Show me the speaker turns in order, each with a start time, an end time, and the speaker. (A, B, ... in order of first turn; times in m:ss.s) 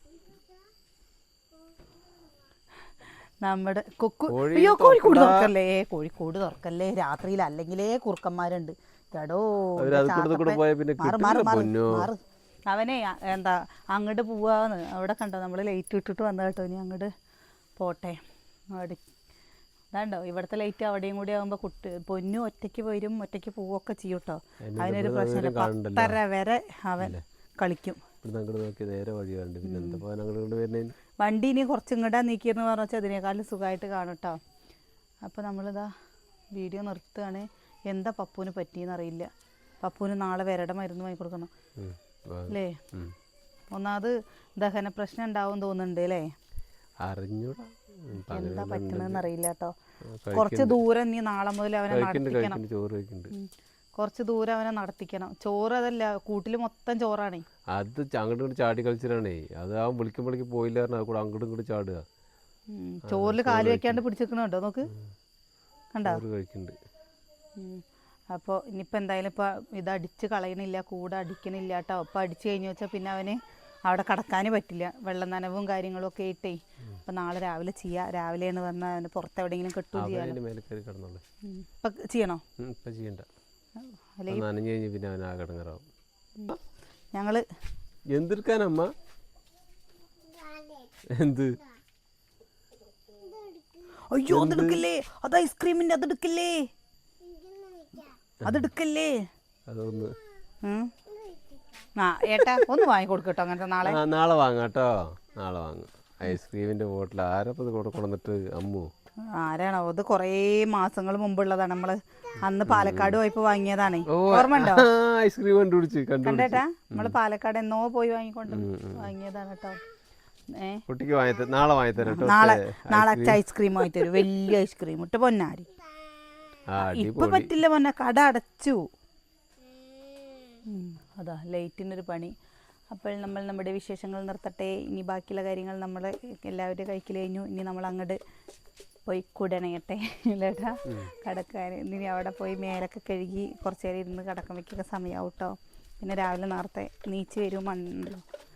0:03.4-0:17.1 A
0:04.3-0:05.5 B
0:09.8-0:12.1 B
0:17.8-0:18.2 A
0:18.8-0:19.0 A
0:19.9-0:28.0 A
0:24.7-0:26.2 B
0:28.2-0:31.0 B
0:29.6-0:30.0 A
0:31.2-0:34.4 A
0:35.2-0:35.9 A
0:36.6-0:39.3 A
0:39.8-0:41.5 A
0:41.8-0:43.1 B
0:42.5-0:42.8 A
0:43.7-0:46.3 A
0:47.0-0:49.2 B
0:48.3-0:49.7 A
0:50.1-0:50.8 B
0:50.3-0:52.6 A
0:51.9-0:53.3 B
0:53.3-0:57.4 A
0:57.7-1:02.0 B
1:02.7-1:04.9 A
1:03.1-1:04.0 B
1:05.9-1:06.2 A
1:06.0-1:06.8 B
1:07.6-1:20.4 A
1:20.0-1:21.2 B
1:21.5-1:22.4 A
1:22.6-1:23.3 B
1:24.2-1:24.5 A
1:24.3-1:25.8 B
1:27.1-1:27.4 A
1:28.1-1:28.9 B
1:31.2-1:31.6 B
1:34.1-1:36.7 A
1:34.3-1:34.8 B
1:38.4-1:39.2 A
1:39.7-1:40.1 B
1:40.6-1:40.9 A
1:42.0-1:44.0 A
1:43.8-1:48.9 B
1:49.4-1:54.9 A
1:52.7-1:53.2 B
1:54.1-1:57.2 B
1:56.2-1:59.8 A
1:58.5-1:59.1 B
2:00.6-2:00.8 A
2:00.9-2:03.4 B
2:02.0-2:05.7 A
2:06.7-2:07.5 B
2:06.8-2:08.8 A
2:10.7-2:12.3 A
2:12.9-2:18.2 A
2:19.1-2:28.2 A
2:20.9-2:21.1 B